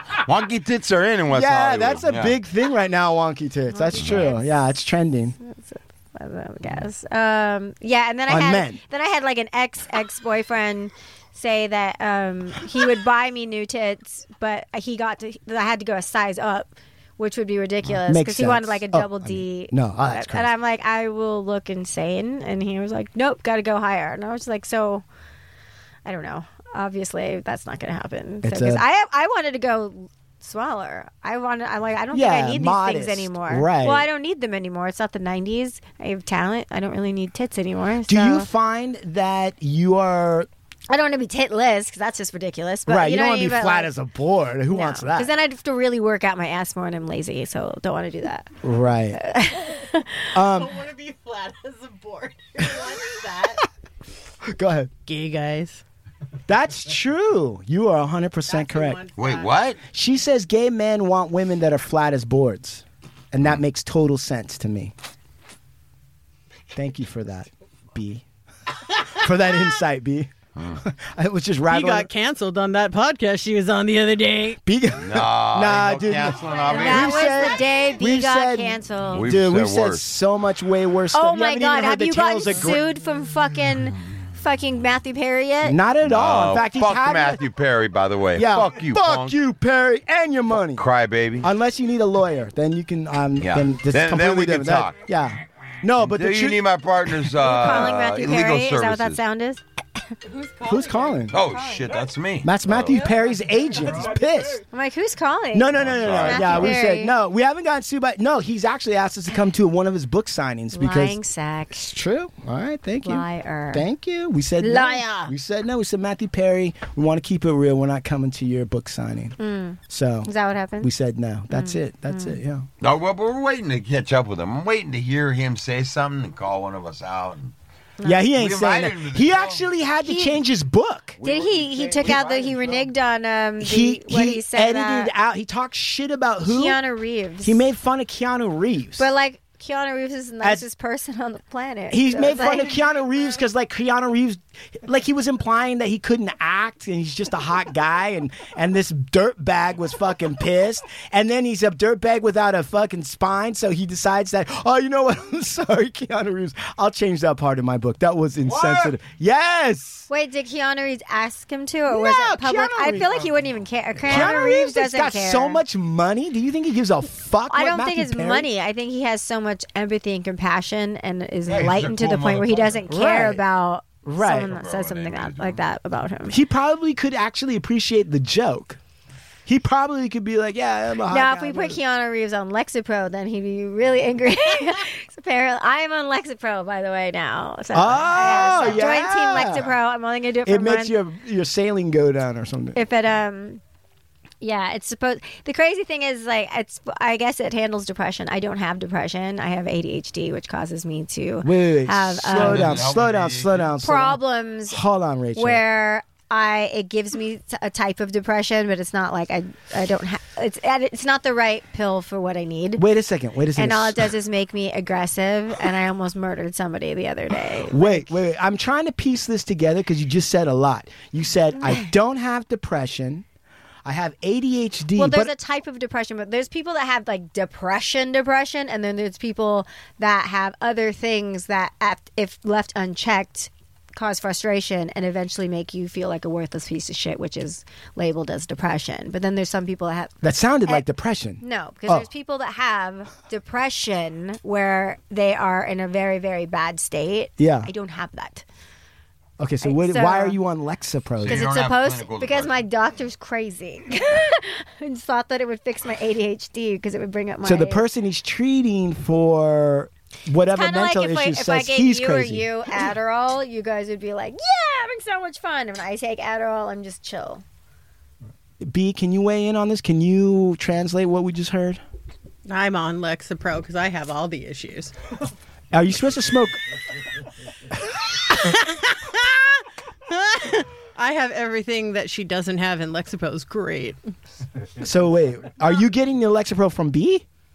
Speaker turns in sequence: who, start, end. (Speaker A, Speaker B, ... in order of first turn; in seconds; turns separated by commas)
Speaker A: 0.2-2.4, Speaker B: 1.3-5.4, Speaker C: 3.7-4.5, Speaker C: 5.4-25.0, Speaker B: 8.3-8.8, Speaker B: 18.0-20.5, Speaker C: 26.1-38.5, Speaker B: 28.4-28.8, Speaker B: 32.1-34.1, Speaker B: 38.1-40.5, Speaker C: 40.9-43.9, Speaker B: 42.9-45.3, Speaker C: 44.7-48.5, Speaker B: 48.6-49.2, Speaker C: 49.2-50.4, Speaker B: 50.3-50.8, Speaker D: 50.5-53.6, Speaker B: 54.5-54.9, Speaker D: 55.1-55.8, Speaker B: 56.5-59.0, Speaker D: 58.5-59.6, Speaker A: 59.2-59.8, Speaker B: 59.9-64.9, Speaker B: 66.7-68.2, Speaker B: 69.0-72.1, Speaker A: 70.6-70.8, Speaker D: 71.7-74.6, Speaker B: 74.6-82.8, Speaker A: 75.0-77.5, Speaker D: 76.4-77.0, Speaker C: 76.7-79.3, Speaker A: 79.1-80.0, Speaker C: 81.1-85.8, Speaker B: 85.6-87.4, Speaker A: 86.0-89.4, Speaker B: 88.3-90.8, Speaker A: 90.7-91.5, Speaker B: 91.4-97.4, Speaker A: 93.4-95.0, Speaker A: 96.0-99.2, Speaker C: 97.4-99.6, Speaker D: 100.2-101.8, Speaker B: 100.6-101.4, Speaker A: 101.3-103.1, Speaker B: 102.4-104.6, Speaker C: 104.7-107.1, Speaker B: 105.5-111.2, Speaker A: 105.8-106.8, Speaker C: 110.7-111.9, Speaker B: 111.7-119.4, Speaker C: 113.0-113.9, Speaker C: 114.6-115.3, Speaker C: 119.4-120.9, Speaker B: 119.9-122.7, Speaker C: 121.5-122.4, Speaker A: 122.8-127.5, Speaker C: 128.0-128.3, Speaker B: 128.0-131.2, Speaker A: 128.3-129.7, Speaker C: 130.0-130.4, Speaker A: 131.2-132.9, Speaker C: 131.2-135.1, Speaker B: 133.6-136.8, Speaker C: 136.4-137.6, Speaker B: 137.4-139.1, Speaker C: 139.0-142.8, Speaker B: 141.9-160.1, Speaker A: 158.4-158.9, Speaker C: 160.1-165.6, Speaker B: 161.9-163.3, Speaker A: 164.0-164.5, Speaker B: 164.1-168.5, Speaker C: 167.5-176.4, Speaker A: 171.5-172.9, Speaker B: 172.9-173.4, Speaker B: 174.1-174.5, Speaker A: 174.5-175.6, Speaker B: 176.3-178.8, Speaker B: 179.4-181.8, Speaker C: 181.1-190.9, Speaker B: 187.7-189.8, Speaker D: 188.4-188.8, Speaker B: 190.4-192.8, Speaker C: 192.8-193.6, Speaker C: 194.4-202.8, Speaker B: 201.4-205.6, Speaker A: 202.3-203.7, Speaker C: 203.8-204.8, Speaker C: 205.3-212.8, Speaker B: 212.8-214.1, Speaker C: 213.6-218.1, Speaker B: 217.7-223.2, Speaker C: 221.6-221.9, Speaker B: 223.8-225.3, Speaker C: 224.9-240.8, Speaker B: 240.2-242.1, Speaker C: 241.4-248.4, Speaker B: 247.4-247.7, Speaker B: 249.4-251.5, Speaker C: 249.6-250.4, Speaker A: 251.2-252.6, Speaker C: 251.3-257.8, Speaker B: 257.4-262.5, Speaker C: 260.5-267.4, Speaker B: 268.6-271.8, Speaker D: 272.4-274.9, Speaker B: 275.7-276.6, Speaker D: 278.4-279.4, Speaker D: 280.1-284.0, Speaker B: 284.8-287.2